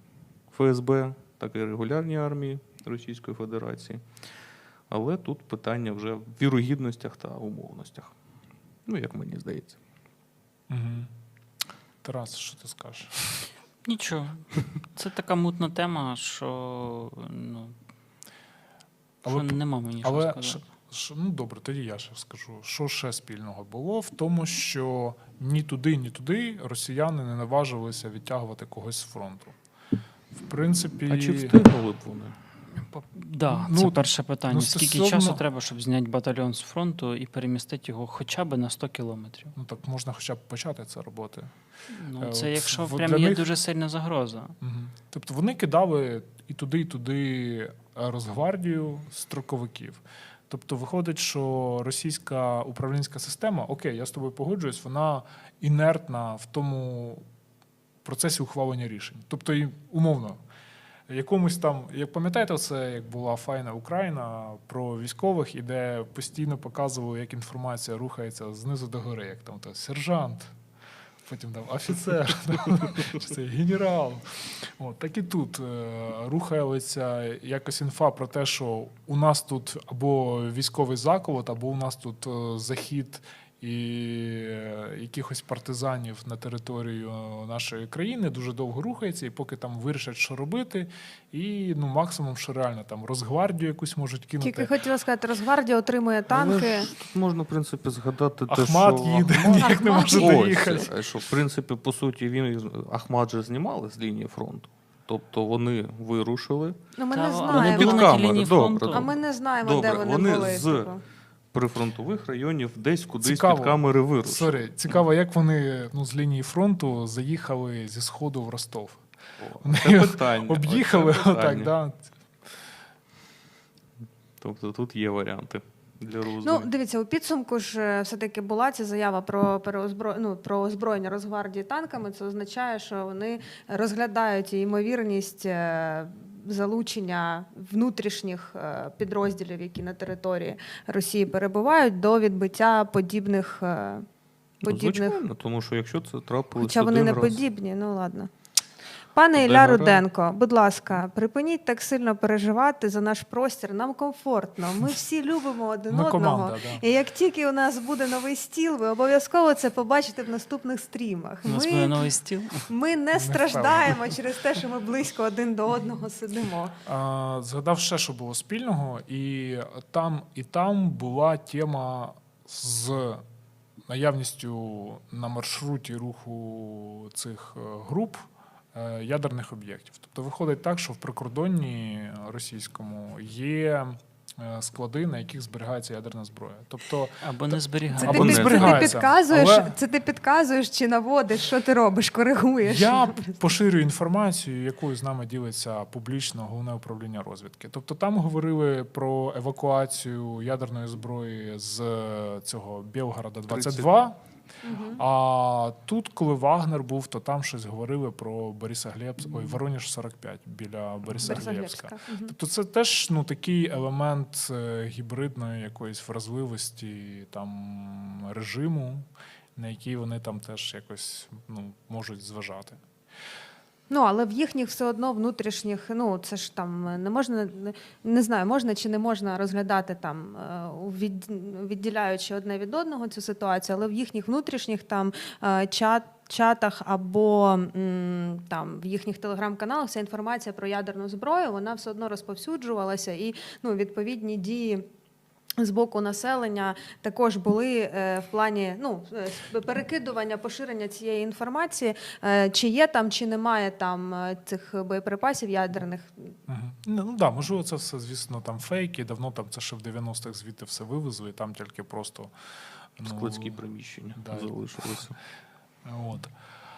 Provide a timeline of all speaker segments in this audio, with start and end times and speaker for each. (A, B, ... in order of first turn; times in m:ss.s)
0:00.5-0:04.0 A
0:04.9-0:08.1 A
0:08.8-0:09.8 A
0:10.7-0:11.1 B
0:12.0-0:13.5 B
0:13.8-0:17.7 C
0:19.2-0:20.6 C
0:19.2-0:29.6 B
0:30.3-0:31.5 B
0:31.1-0:32.4 A
0:32.8-0:39.5 C
0:33.4-0:35.4 B
0:39.6-0:41.5 B
0:41.9-0:44.5 C
0:42.2-0:43.5 B
0:44.6-0:57.2 B
0:58.0-1:00.4 B
1:01.1-1:10.5 B
1:11.2-1:34.7 B
1:34.4-1:36.9 D
1:36.3-1:46.8 A
1:38.5-1:40.9 B
1:39.4-1:40.8 D
1:47.0-1:48.1 D
1:47.1-1:49.1 C
1:47.4-1:50.9 A
1:48.9-1:51.0 D
1:51.5-1:54.7 A
1:53.2-1:59.0 B
1:59.4-2:01.7 A
1:59.6-2:02.1 B
2:04.4-2:06.7 A
2:06.4-2:24.0 D
2:24.6-2:25.2 D
2:24.6-2:27.4 A
2:26.6-2:28.3 D
2:29.1-2:42.0 D
2:29.3-2:30.0 A
2:35.9-2:36.8 B
2:41.4-2:42.7 C
2:42.7-2:46.7 D
2:43.1-2:44.1 B
2:46.8-2:53.2 B
2:53.9-3:09.7 B
3:07.2-3:08.7 C
3:07.9-3:13.4 D
3:08.1-3:08.9 A
3:12.6-3:24.2 B
3:23.5-3:23.9 A
3:24.6-3:25.0 D
3:25.0-3:42.8 B
3:31.2-3:32.3 D
3:43.9-4:04.8 D
4:05.6-4:16.3 D
4:16.5-4:22.3 B
4:23.0-4:23.6 B
4:23.0-4:25.1 A
4:24.2-4:24.5 B
4:25.8-4:26.3 B